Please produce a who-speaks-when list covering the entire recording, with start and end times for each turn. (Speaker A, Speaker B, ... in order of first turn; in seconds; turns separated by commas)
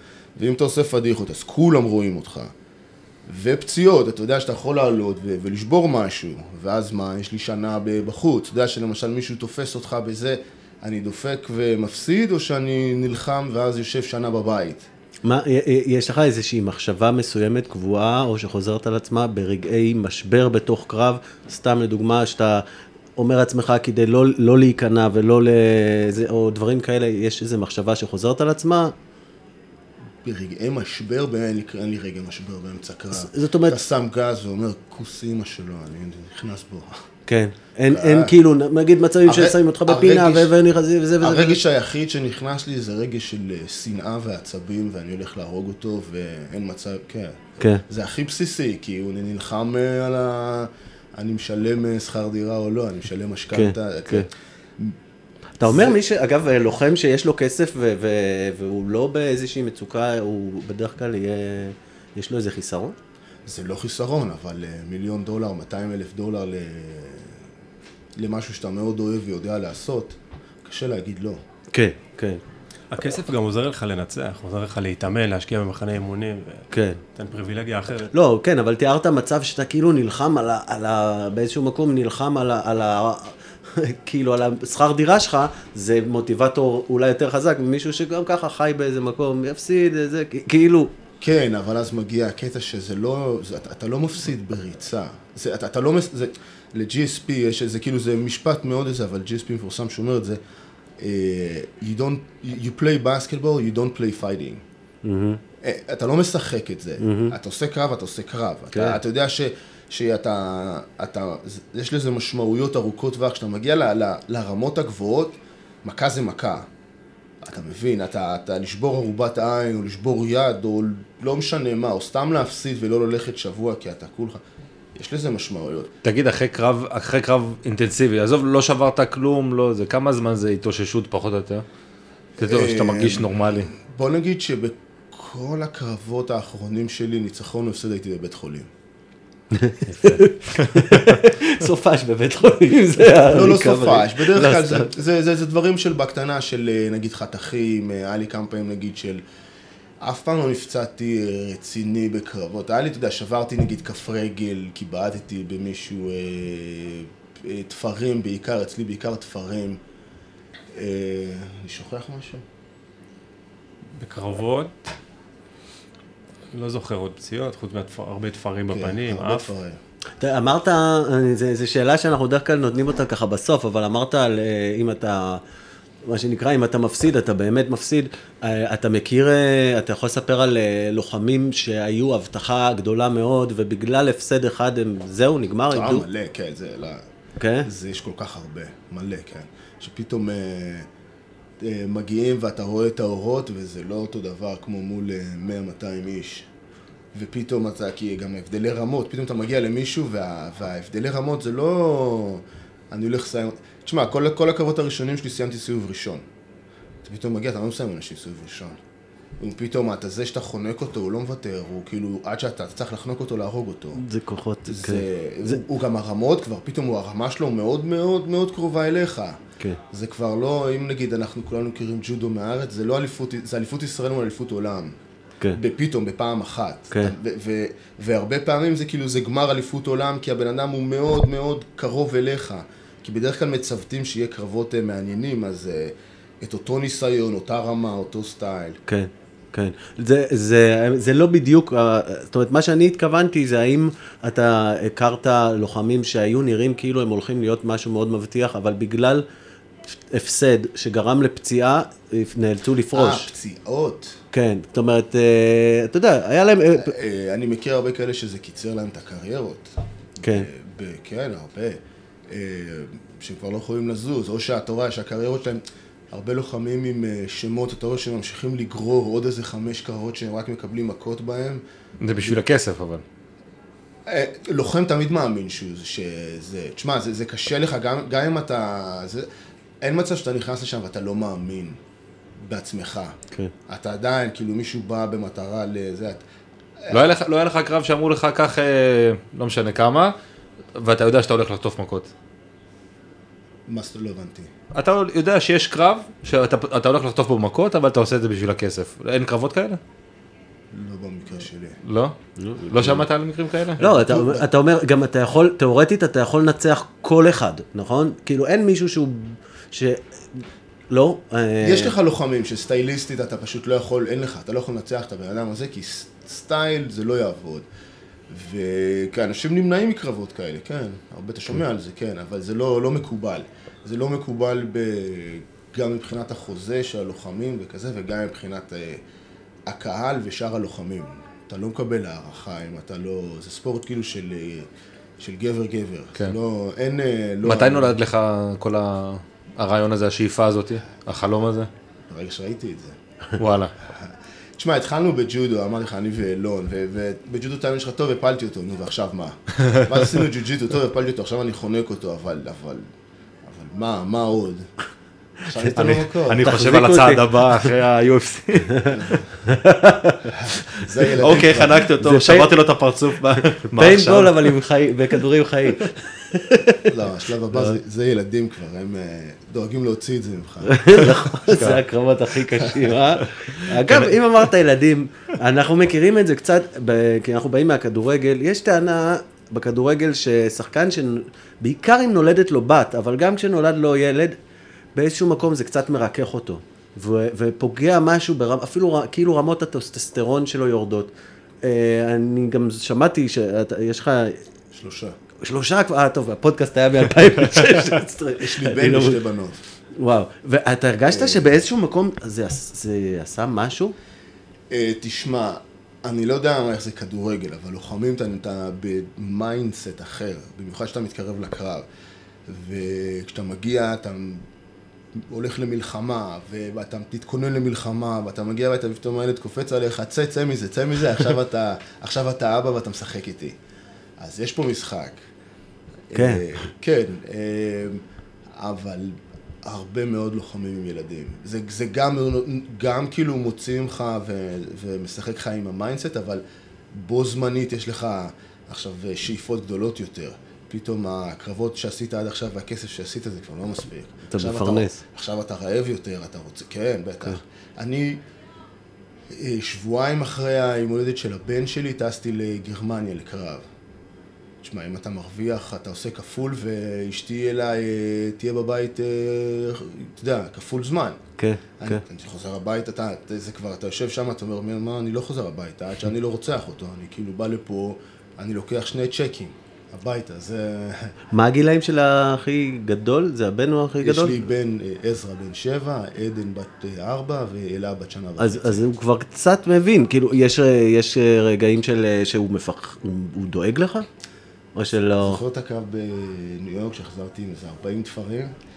Speaker A: 0.3-2.5, Speaker A: 3.2-14.8, Speaker B: 15.2-22.6, Speaker B: 23.1-28.9, Speaker A: 30.2-37.0, Speaker B: 33.1-33.8, Speaker B: 37.3-41.6, Speaker A: 37.9-38.4, Speaker A: 39.2-40.5, Speaker A: 41.2-55.0, Speaker B: 53.5-54.3, Speaker B: 55.6-63.0, Speaker A: 55.6-56.0, Speaker A: 63.5-67.4, Speaker A: 68.2-71.4, Speaker B: 71.7-72.4, Speaker C: 72.9-78.1, Speaker B: 76.7-77.0, Speaker B: 78.1-90.9, Speaker A: 91.2-100.4, Speaker A: 101.0-104.6, Speaker B: 105.0-105.4, Speaker A: 105.6-116.7, Speaker B: 107.0-107.3, Speaker B: 108.7-109.0, Speaker A: 117.4-124.4, Speaker A: 125.0-125.9, Speaker D: 126.0-131.6, Speaker D: 132.4-133.7, Speaker A: 132.4-138.7, Speaker B: 139.5-144.9, Speaker D: 140.0-140.8, Speaker A: 143.2-149.2, Speaker A: 150.0-159.8, Speaker A: 160.7-162.4, Speaker C: 163.9-164.8, Speaker C: 166.5-169.5, Speaker A: 168.7-169.8, Speaker B: 170.2-175.4, Speaker B: 176.1-186.1, Speaker A: 185.7-187.1, Speaker B: 187.4-187.7, Speaker A: 187.6-190.9, Speaker A: 191.6-196.5, Speaker A: 197.1-206.2, Speaker A: 207.0-208.8, Speaker A: 209.4-214.0, Speaker B: 213.9-215.6, Speaker A: 214.7-224.9, Speaker A: 225.5-238.8, Speaker B: 238.9-249.2, Speaker B: 250.1-253.3, Speaker A: 252.9-254.2, Speaker B: 254.3-256.9, Speaker A: 256.7-259.8, Speaker B: 260.2-260.5, Speaker A: 260.3-271.6, Speaker D: 272.0-273.0, Speaker A: 274.1-279.3, Speaker A: 279.8-281.8, Speaker A: 282.4-283.1, Speaker A: 283.7-286.2, Speaker D: 286.9-290.1, Speaker D: 290.7-292.1, Speaker A: 293.7-294.5, Speaker D: 294.7-299.8, Speaker A: 300.7-301.8, Speaker D: 301.8-302.1, Speaker B: 302.4-302.9, Speaker D: 302.7-303.8, Speaker A: 302.7-303.0, Speaker A: 303.8-304.5, Speaker B: 303.8-310.0, Speaker B: 310.9-311.9, Speaker A: 311.6-317.6, Speaker A: 318.3-329.0, Speaker A: 329.6-334.7, Speaker A: 335.2-337.9, Speaker D: 337.4-341.7, Speaker A: 342.1-343.0, Speaker D: 343.4-343.7, Speaker A: 344.0-352.9, Speaker A: 353.4-354.7, Speaker A: 355.4-356.5, Speaker D: 355.8-358.8, Speaker B: 356.4-357.6, Speaker A: 358.9-359.3, Speaker B: 359.4-360.4, Speaker A: 360.8-361.9, Speaker D: 361.2-364.5, Speaker B: 362.0-362.5, Speaker B: 363.7-366.9, Speaker A: 366.9-371.1, Speaker B: 370.6-384.4, Speaker D: 371.5-371.8, Speaker D: 373.8-374.1, Speaker B: 384.9-391.1, Speaker B: 391.6-394.4, Speaker A: 394.7-395.1, Speaker B: 395.4-399.2, Speaker A: 398.4-399.6, Speaker B: 400.0-403.9, Speaker A: 401.1-401.4, Speaker A: 404.7-411.9, Speaker A: 412.5-414.4, Speaker A: 415.1-423.6, Speaker A: 424.2-425.2, Speaker A: 426.1-428.0, Speaker B: 426.1-426.4, Speaker A: 428.5-448.2, Speaker B: 444.3-445.0, Speaker A: 449.3-453.6, Speaker A: 454.6-461.2, Speaker B: 461.4-462.0, Speaker A: 461.8-471.1, Speaker B: 471.3-474.4, Speaker A: 474.0-478.8, Speaker B: 478.4-484.1, Speaker B: 484.7-485.4, Speaker A: 485.2-488.5